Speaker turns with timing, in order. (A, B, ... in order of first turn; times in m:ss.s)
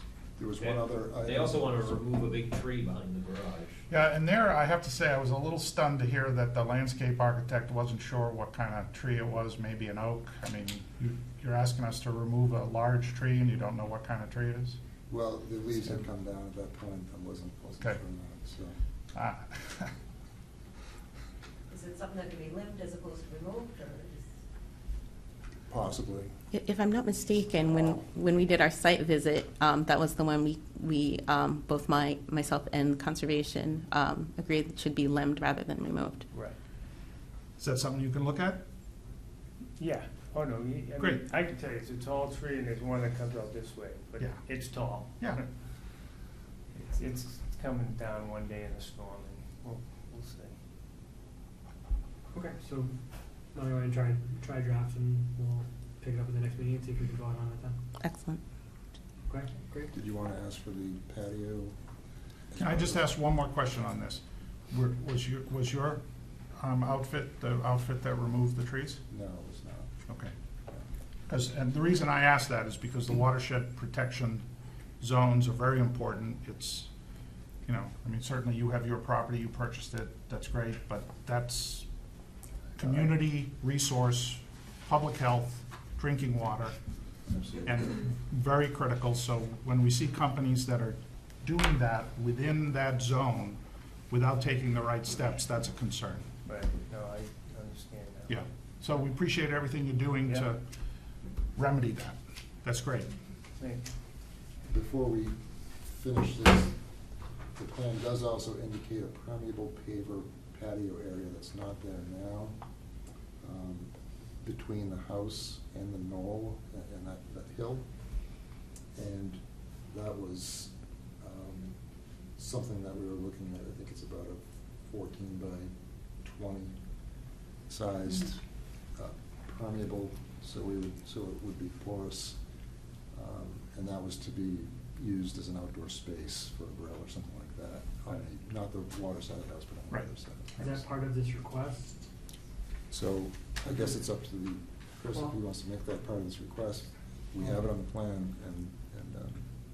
0:00.4-0:02.0 A
0:00.6-0:03.8 B
0:03.9-0:14.8 C
0:15.1-0:18.8 A
0:19.2-0:19.9 C
0:21.7-0:24.3 D
0:25.7-0:26.3 A
0:26.5-0:36.2 E
0:36.3-0:36.6 F
0:37.6-0:38.6 C
0:39.8-0:45.5 F
0:46.8-0:50.6 F
0:52.3-0:52.9 G
0:53.5-0:57.8 G
0:58.0-0:58.4 E
0:59.3-0:59.9 G
0:59.9-1:01.8 A
1:02.5-1:03.1 A
1:02.6-1:06.0 C
1:06.6-1:09.0 C
1:09.1-1:09.9 A
1:11.3-1:14.4 C
1:15.0-1:16.9 C
1:17.7-1:21.9 C
1:22.8-1:26.8 C
1:27.6-1:36.3 C
1:36.4-1:38.4 F
1:38.3-1:40.6 C
1:41.6-1:43.1 C
1:43.6-1:43.9 F
1:44.7-1:46.7 A
1:47.6-1:52.6 A
1:53.4-1:53.9 A
1:54.4-1:57.9 A
1:58.9-2:01.8 A
2:02.4-2:05.7 A
2:06.2-2:06.8 A
2:07.7-2:08.4 A
2:08.9-2:12.4 A
2:13.1-2:20.8 A
2:20.6-2:22.1 G
2:22.9-2:29.4 A